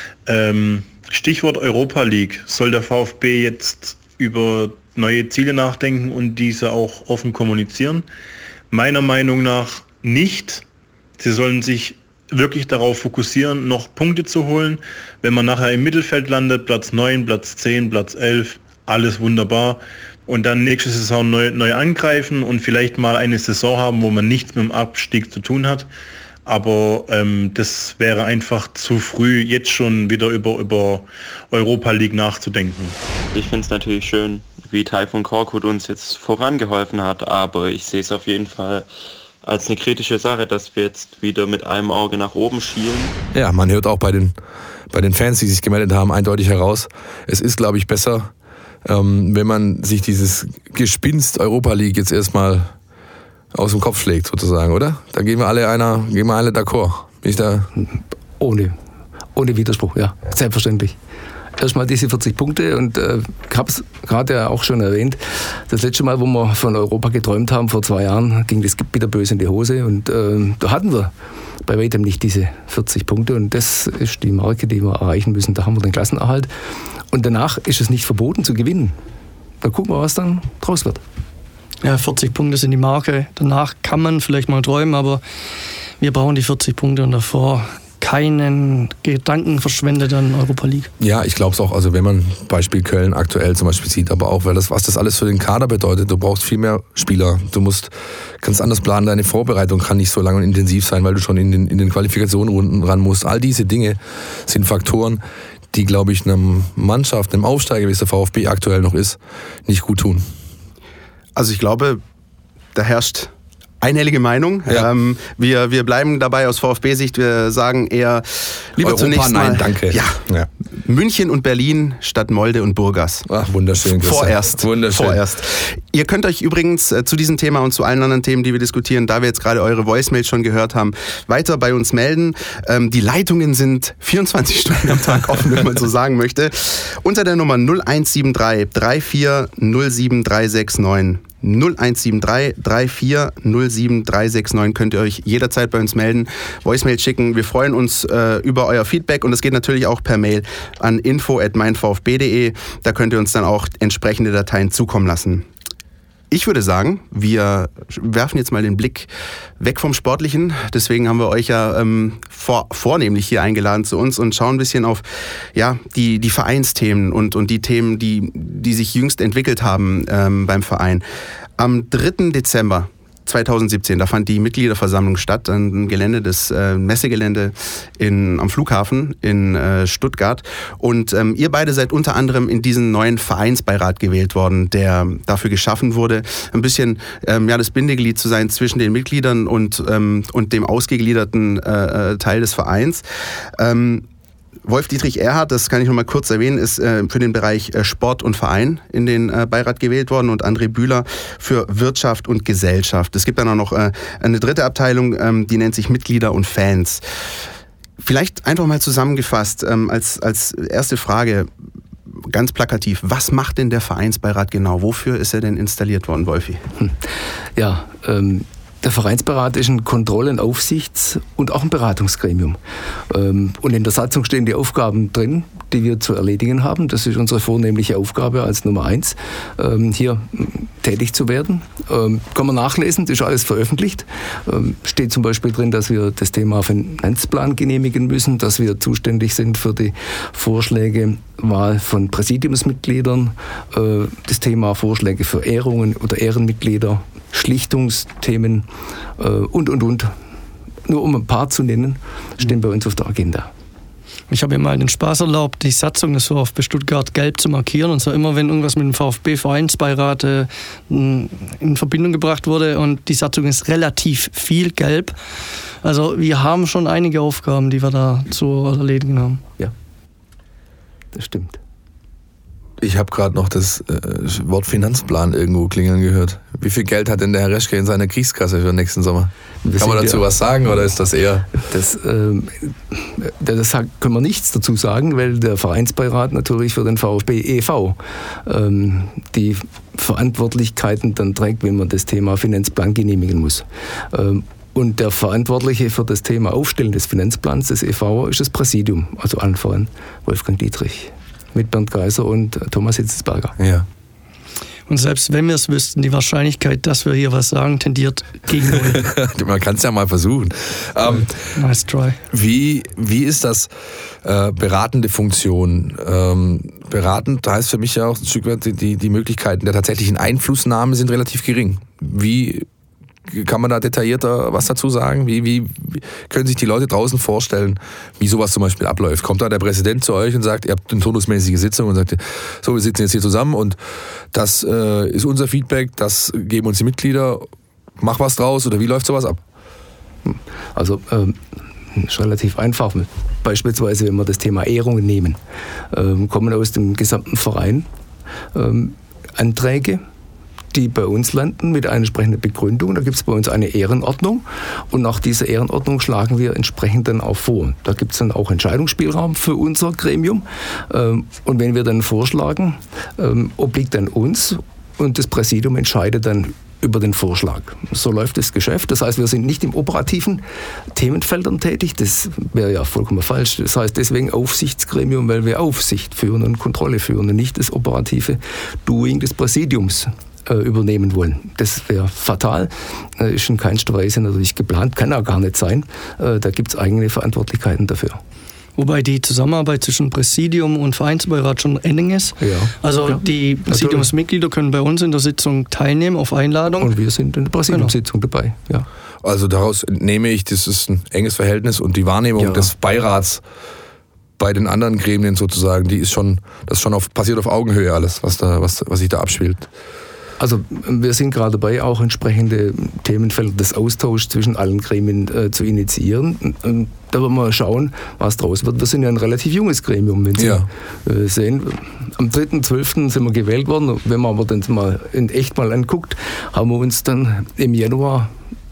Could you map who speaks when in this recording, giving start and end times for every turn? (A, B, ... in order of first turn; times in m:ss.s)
0:00.2-0:08.0 A
0:08.7-0:10.6 A
0:11.2-0:25.9 A
0:26.4-0:32.9 A
0:33.3-0:38.9 B
0:39.4-0:43.1 B
0:43.3-0:44.3 C
0:44.9-0:48.3 C
0:48.8-0:52.7 C
0:53.5-0:57.7 C
0:57.8-0:58.8 D
0:59.3-1:01.0 D
1:01.6-1:11.1 D
1:11.6-1:16.5 D
1:17.1-1:19.0 D
1:19.6-1:21.0 D
1:21.8-1:25.2 E
1:26.0-1:30.9 E
1:31.0-1:45.2 C
1:45.7-1:50.3 C
1:51.4-1:52.0 F
1:52.7-2:00.2 F
1:58.8-2:00.5 C
2:00.8-2:03.2 F
2:03.3-2:05.2 C
2:03.8-2:35.5 F
2:36.3-2:39.1 F
2:39.6-2:45.0 F
2:45.5-2:51.0 F
2:51.6-3:13.0 F
3:13.6-3:14.0 F
3:14.6-3:27.0 F
3:28.0-3:31.5 F
3:32.3-3:36.6 F
3:36.8-4:08.7 D
4:09.2-4:10.1 D
4:10.8-4:13.5 D
4:14.3-4:25.2 E
4:25.8-4:29.4 E
4:31.1-4:31.6 D
4:32.8-4:41.6 C
4:39.6-4:40.2 D
4:41.6-5:03.5 D
5:03.6-5:03.8 C
5:04.9-5:09.1 E
5:08.9-5:11.3 C
5:11.5-5:12.2 E
5:12.3-5:13.7 C
5:14.2-5:22.6 C
5:23.3-5:33.8 C
5:34.3-5:37.5 C
5:38.0-5:39.4 C
5:40.2-5:45.4 D
5:45.9-5:47.9 D
5:48.5-5:50.0 D
5:50.7-6:28.2 D
6:28.8-6:36.9 E
6:32.4-6:34.1 D
6:36.8-6:38.9 D
6:39.2-6:43.4 C
6:42.4-6:42.7 D
6:44.4-6:49.7 C
6:50.4-7:08.3 D
7:00.4-7:00.7 C